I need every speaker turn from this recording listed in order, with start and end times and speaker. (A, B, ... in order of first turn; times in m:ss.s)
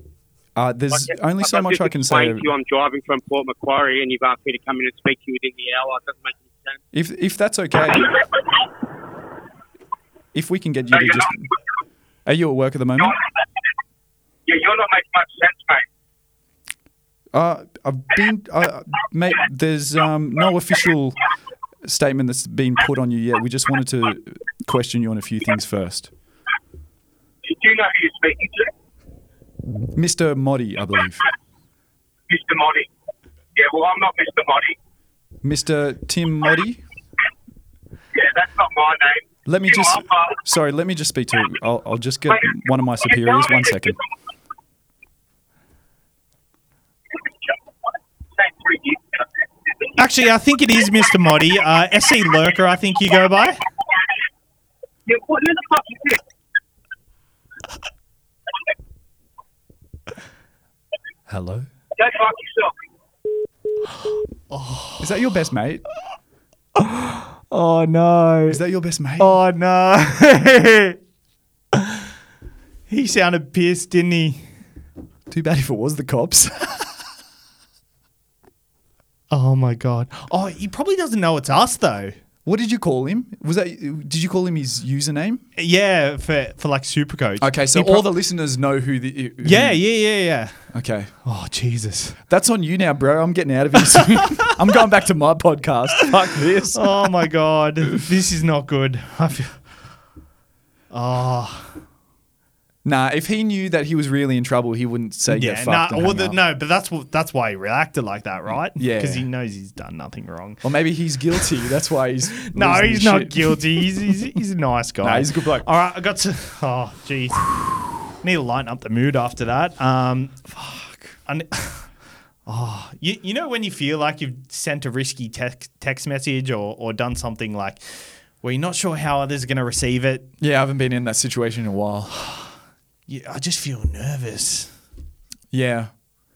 0:00.6-0:02.5 A
0:00.9-0:06.8 B
0:06.9-0:08.1 A
0:10.3-0:11.5 A
0:10.9-0:11.3 B
0:12.2-0:13.2 A
0:14.4-0:15.8 B
0:17.3-0:21.2 A
0:21.8-0:26.1 A
0:27.4-0:28.7 B
0:29.7-0:31.2 A
0:32.3-0:32.9 B
0:33.6-0:34.8 B
0:35.4-0:36.8 A
0:38.1-0:40.4 B
0:39.4-0:44.0 A
0:43.0-0:44.0 B
0:47.2-0:47.6 B
0:48.4-0:49.2 B
0:50.0-0:53.6 C
0:55.0-0:56.2 B
1:01.3-1:01.7 C
1:02.0-1:02.7 B
1:04.5-1:05.2 C
1:05.0-1:05.8 A
1:06.8-1:08.6 C
1:08.5-1:09.4 A
1:09.2-1:11.0 C
1:11.7-1:12.0 C
1:12.9-1:14.5 C
1:15.3-1:17.0 A
1:19.3-1:22.2 C
1:22.4-1:25.4 A
1:25.6-1:28.1 C
1:27.4-1:29.8 A
1:29.4-1:30.7 C
1:30.7-1:31.1 A
1:31.2-1:32.2 C
1:32.3-1:37.1 A
1:36.7-1:39.6 C
1:40.9-1:41.8 C
1:42.8-1:46.4 A
1:45.3-1:50.6 C
1:48.7-1:49.3 A
1:50.6-1:54.2 A
1:52.4-2:00.5 C
1:55.0-1:55.7 A
2:00.5-2:01.2 A
2:01.3-2:01.9 C
2:02.4-2:10.3 C
2:10.4-2:12.5 A
2:13.1-2:14.7 C
2:15.5-2:15.9 A